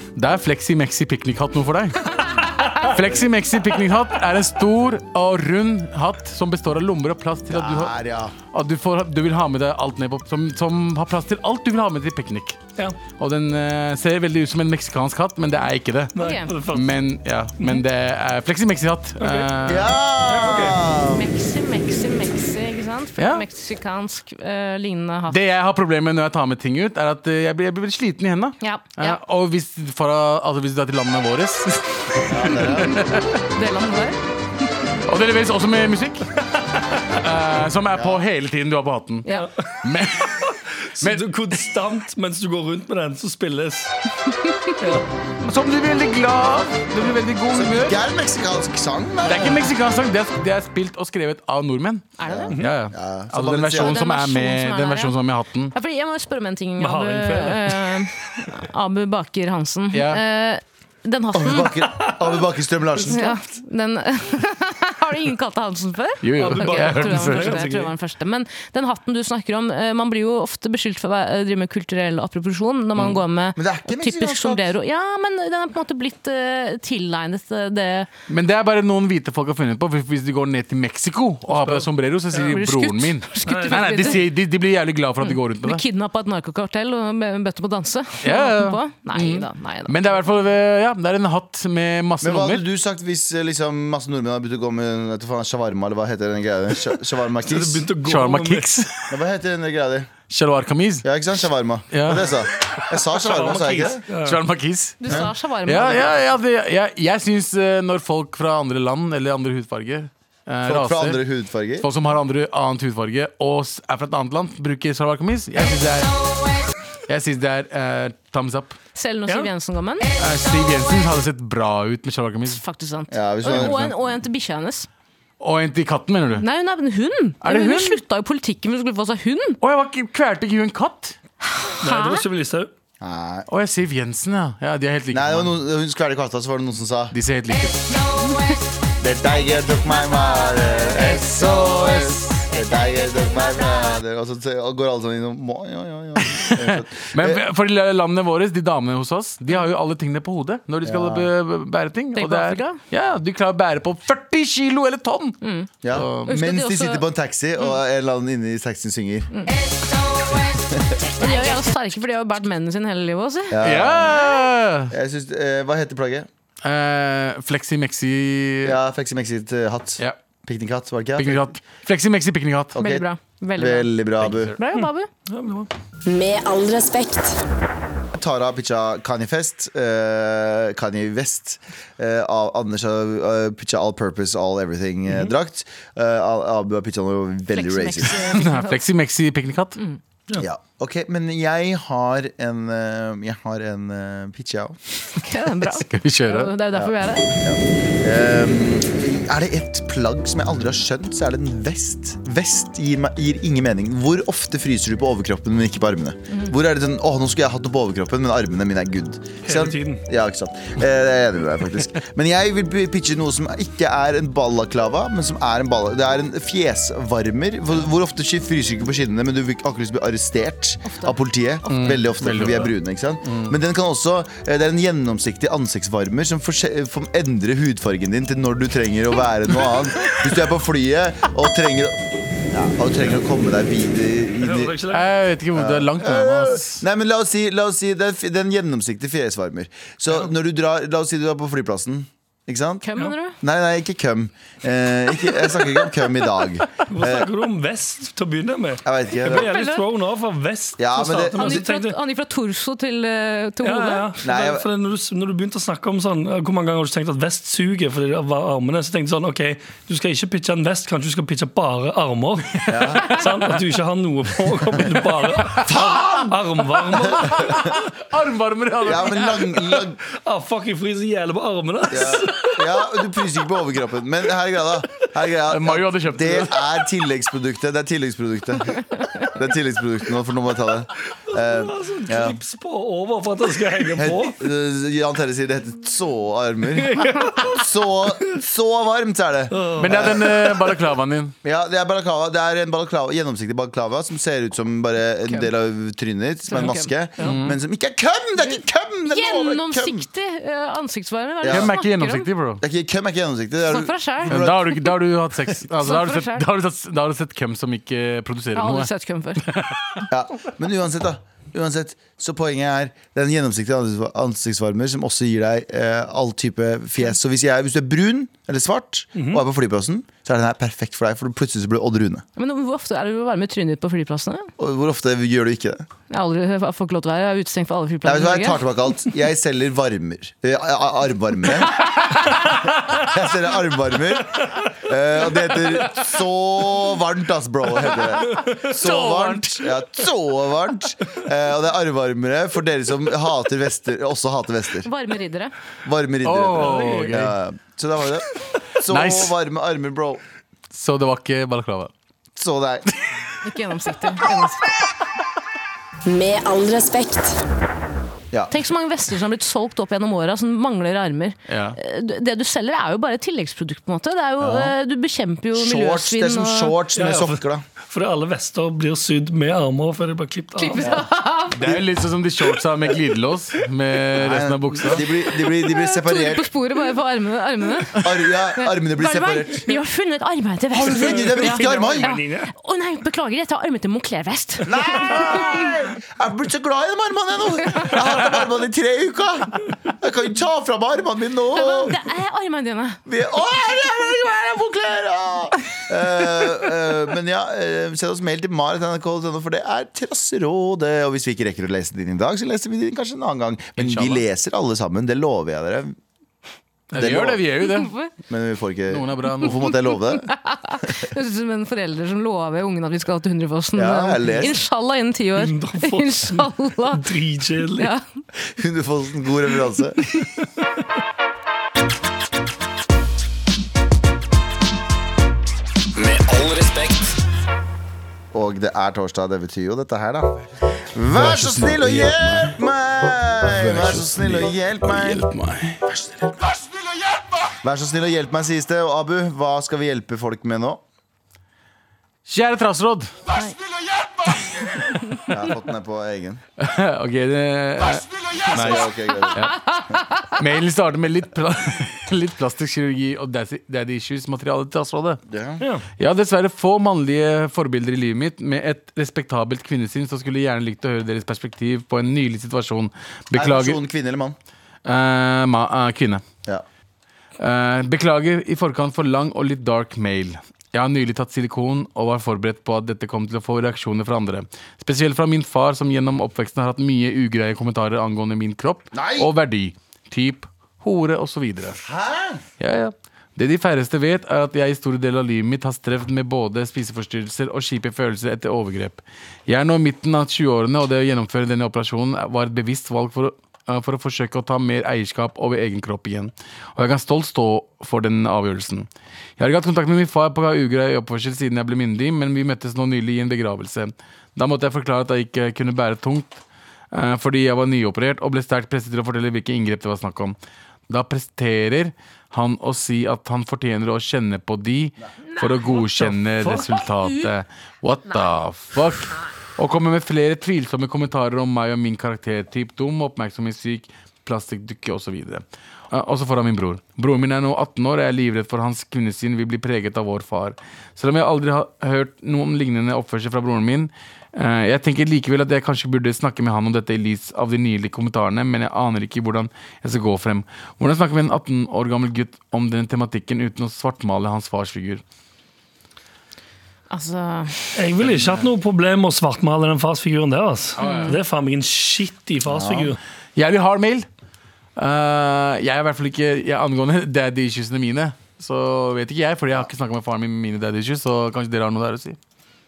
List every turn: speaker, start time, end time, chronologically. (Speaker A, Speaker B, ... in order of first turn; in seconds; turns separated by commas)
Speaker A: 0.2-7.9, Speaker B: 2.3-2.8, Speaker C: 7.5-8.4, Speaker A: 8.5-12.6, Speaker A: 13.2-16.1, Speaker D: 16.1-16.9, Speaker B: 16.2-16.5, Speaker A: 16.7-19.9, Speaker D: 19.2-19.5, Speaker C: 19.7-21.3, Speaker D: 20.3-20.8, Speaker B: 21.1-25.4, Speaker A: 23.2-23.4, Speaker A: 25.3-33.4, Speaker B: 28.6-29.2, Speaker C: 32.3-33.1, Speaker B: 33.5-34.2, Speaker A: 35.1-36.4, Speaker A: 37.1-39.3, Speaker C: 37.9-38.2, Speaker D: 39.3-39.8, Speaker A: 39.8-41.3, Speaker D: 40.7-43.9, Speaker B: 44.3-44.8, Speaker D: 44.8-45.1, Speaker A: 45.4-48.0, Speaker C: 47.5-49.6, Speaker A: 49.2-55.7, Speaker B: 52.2-52.5, Speaker C: 52.3-54.0, Speaker B: 53.8-55.1, Speaker B: 55.7-61.8, Speaker D: 56.8-58.1, Speaker A: 59.9-60.2, Speaker C: 61.3-63.4, Speaker B: 63.1-78.1, Speaker A: 66.2-67.7, Speaker D: 66.4-67.9, Speaker C: 73.6-74.7, Speaker A: 78.3-85.8, Speaker D: 81.5-82.6, Speaker B: 82.4-84.2, Speaker D: 83.5-84.2, Speaker B: 85.2-90.1, Speaker A: 88.2-92.6, Speaker C: 92.2-97.9, Speaker D: 97.4-98.8, Speaker A: 98.0-99.2, Speaker C: 99.1-100.1, Speaker A: 100.3-101.1, Speaker C: 101.0-104.0, Speaker A: 101.9-102.3, Speaker D: 103.2-104.4, Speaker A: 104.2-111.2, Speaker B: 105.0-106.2, Speaker C: 110.7-111.9, Speaker A: 111.8-116.2, Speaker A: 117.1-118.8, Speaker B: 119.0-120.1, Speaker A: 120.2-122.6, Speaker B: 122.5-124.9, Speaker C: 123.1-123.9, Speaker A: 123.5-123.9, Speaker A: 125.4-126.5, Speaker B: 126.4-129.6, Speaker A: 127.4-128.0, Speaker A: 129.6-131.2, Speaker B: 131.4-132.2, Speaker D: 131.8-132.7, Speaker C: 133.0-133.5, Speaker A: 133.5-135.5, Speaker C: 135.1-137.2, Speaker A: 137.1-137.9, Speaker B: 138.2-138.6, Speaker C: 139.0-147.4, Speaker A: 146.2-155.4, Speaker C: 150.8-151.3, Speaker B: 152.2-152.8, Speaker B: 155.4-155.7, Speaker C: 155.8-159.3, Speaker A: 155.9-156.3, Speaker B: 156.3-157.1, Speaker C: 160.5-161.0, Speaker B: 161.2-163.6, Speaker C: 163.5-164.2, Speaker A: 163.6-164.9, Speaker C: 164.9-166.3, Speaker A: 166.6-168.8, Speaker C: 168.6-171.5, Speaker A: 171.2-172.8, Speaker C: 172.7-174.5, Speaker B: 172.8-173.9, Speaker A: 174.2-174.6, Speaker B: 174.6-175.1, Speaker D: 174.8-175.7, Speaker E: 176.1-177.4, Speaker C: 178.1-188.3, Speaker B: 187.5-188.8, Speaker A: 188.3-189.8, Speaker C: 190.4-194.8, Speaker B: 195.2-197.3, Speaker A: 195.7-196.5, Speaker C: 196.7-234.8, Speaker D: 209.4-210.0, Speaker B: 220.9-221.2, Speaker A: 221.7-222.7, Speaker A: 223.2-223.6, Speaker D: 234.4-235.1, Speaker A: 234.9-236.8, Speaker C: 235.5-247.3, Speaker B: 242.8-243.4, Speaker D: 246.9-252.0, Speaker C: 248.8-249.5, Speaker B: 249.3-249.8, Speaker C: 250.8-251.6, Speaker B: 251.3-254.1, Speaker D: 253.6-267.7, Speaker C: 254.2-254.7, Speaker C: 262.7-263.1, Speaker A: 265.5-266.1, Speaker C: 265.7-266.2, Speaker C: 267.1-267.7, Speaker A: 267.2-269.5, Speaker C: 268.8-270.0, Speaker D: 270.1-272.6, Speaker C: 271.9-282.4, Speaker A: 275.5-276.6, Speaker D: 281.3-284.4, Speaker C: 284.0-290.3, Speaker D: 286.8-287.6, Speaker D: 289.5-290.6, Speaker A: 289.8-291.4, Speaker C: 291.4-300.1, Speaker B: 296.5-296.9, Speaker A: 297.2-297.6, Speaker B: 298.4-302.3, Speaker C: 301.4-301.7, Speaker A: 301.5-302.6, Speaker C: 302.6-304.9, Speaker B: 303.7-304.4, Speaker A: 304.3-308.9, Speaker B: 305.8-306.4, Speaker B: 308.6-309.4, Speaker A: 309.4-310.0, Speaker C: 310.1-322.2, Speaker D: 319.1-319.4, Speaker B: 322.4-324.5, Speaker C: 324.6-325.9, Speaker B: 326.1-328.6, Speaker C: 328.0-344.9, Speaker A: 338.5-339.8, Speaker B: 344.8-345.5, Speaker C: 345.9-350.2, Speaker A: 346.2-347.3, Speaker D: 346.6-347.1, Speaker A: 348.9-349.4, Speaker A: 350.7-351.9, Speaker C: 352.4-352.9, Speaker B: 353.4-354.7, Speaker E: 356.1-357.3, Speaker B: 358.5-366.8, Speaker A: 361.5-361.8, Speaker C: 364.4-364.8, Speaker C: 365.6-367.6, Speaker D: 366.9-370.9, Speaker B: 370.6-371.6, Speaker A: 371.5-375.0, Speaker C: 374.2-376.5, Speaker B: 375.5-378.0, Speaker C: 378.0-379.7, Speaker B: 378.6-385.7, Speaker C: 380.8-382.1, Speaker D: 380.8-382.5, Speaker C: 384.7-392.0, Speaker B: 391.5-393.0, Speaker C: 393.1-406.0, Speaker A: 403.8-404.2, Speaker C: 406.9-407.4, Speaker A: 406.9-407.9, Speaker B: 407.6-408.1, Speaker C: 408.3-410.3, Speaker A: 408.9-409.6, Speaker B: 409.9-417.1, Speaker C: 413.8-414.5, Speaker D: 415.4-417.9, Speaker B: 417.7-418.0, Speaker C: 418.5-420.1, Speaker A: 426.0-427.0, Speaker C: 428.3-435.2, Speaker A: 431.2-432.6, Speaker A: 433.4-436.2, Speaker C: 437.6-440.8, Speaker A: 442.3-443.1, Speaker C: 445.3-446.4, Speaker A: 446.6-449.6, Speaker C: 448.5-449.5, Speaker A: 450.3-455.2, Speaker C: 455.3-455.6, Speaker D: 455.6-455.9, Speaker A: 456.0-463.8, Speaker C: 463.3-464.4, Speaker A: 464.9-466.2, Speaker A: 467.4-481.8, Speaker C: 478.9-479.3, Speaker C: 481.8-482.4, Speaker A: 482.6-510.4, Speaker A: 510.9-545.0, Speaker D: 515.9-516.8, Speaker B: 546.9-547.8, Speaker D: 547.8-553.0, Speaker A: 548.0-548.5, Speaker A: 550.8-551.1, Speaker B: 550.8-551.2, Speaker C: 552.5-552.9, Speaker A: 553.4-554.1, Speaker A: 554.8-562.2